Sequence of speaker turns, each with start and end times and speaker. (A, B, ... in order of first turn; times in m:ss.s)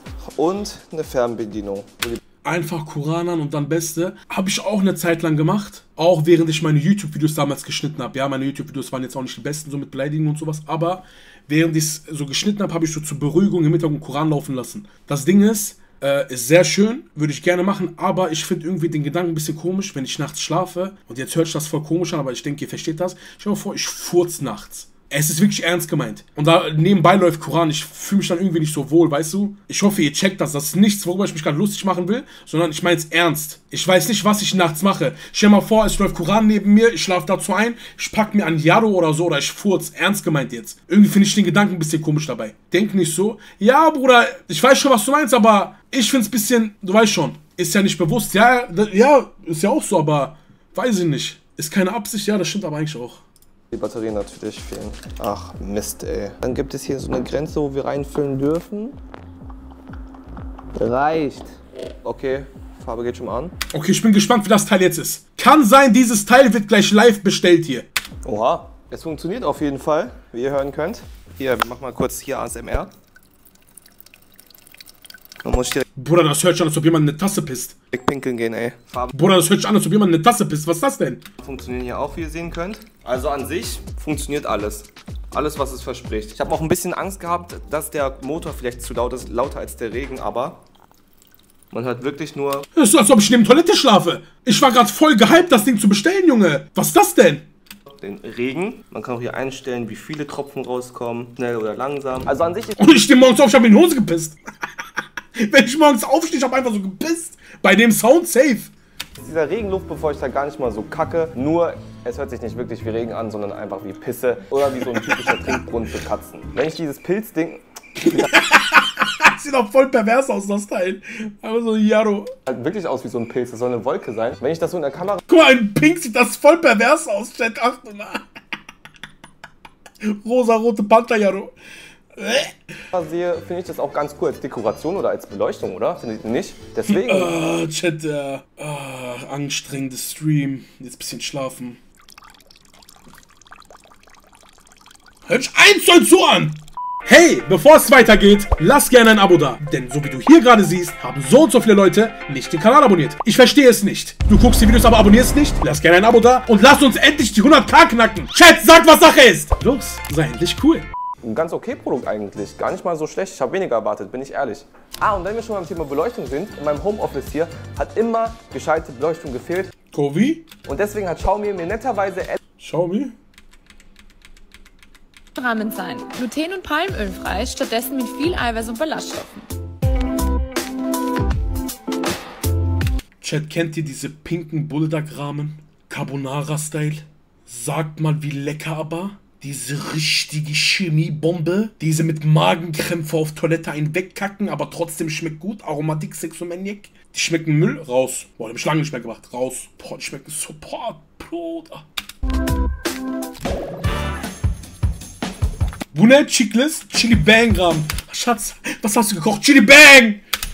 0:00.4-0:02.2 A
0:02.4-0:53.2 B
0:53.7-0:59.0 A
1:00.8-1:03.5 A
1:03.7-1:07.9 B
1:08.2-1:12.9 A
1:15.4-1:15.8 A
1:16.0-1:17.8 B
1:17.9-1:19.1 A
1:19.1-1:21.2 B
1:21.4-1:30.6 A
1:31.7-1:32.7 A
1:32.8-1:37.4 B
1:37.9-1:42.8 A
1:42.8-1:44.4 B
1:45.4-1:48.7 B
1:49.2-1:58.3 A
1:58.0-2:02.3 B
2:02.5-2:05.2 A
2:05.3-2:08.2 B
2:10.0-2:11.5 B
2:12.2-2:12.5 B
2:12.9-2:17.3 A
2:16.9-2:21.8 B
2:25.3-2:40.9 B
2:41.2-2:49.7 A
2:49.9-2:50.5 B
2:50.6-2:52.4 A
2:52.6-2:53.1 B
2:55.4-2:59.5 C
3:03.2-3:21.8 B
3:25.9-3:30.2 B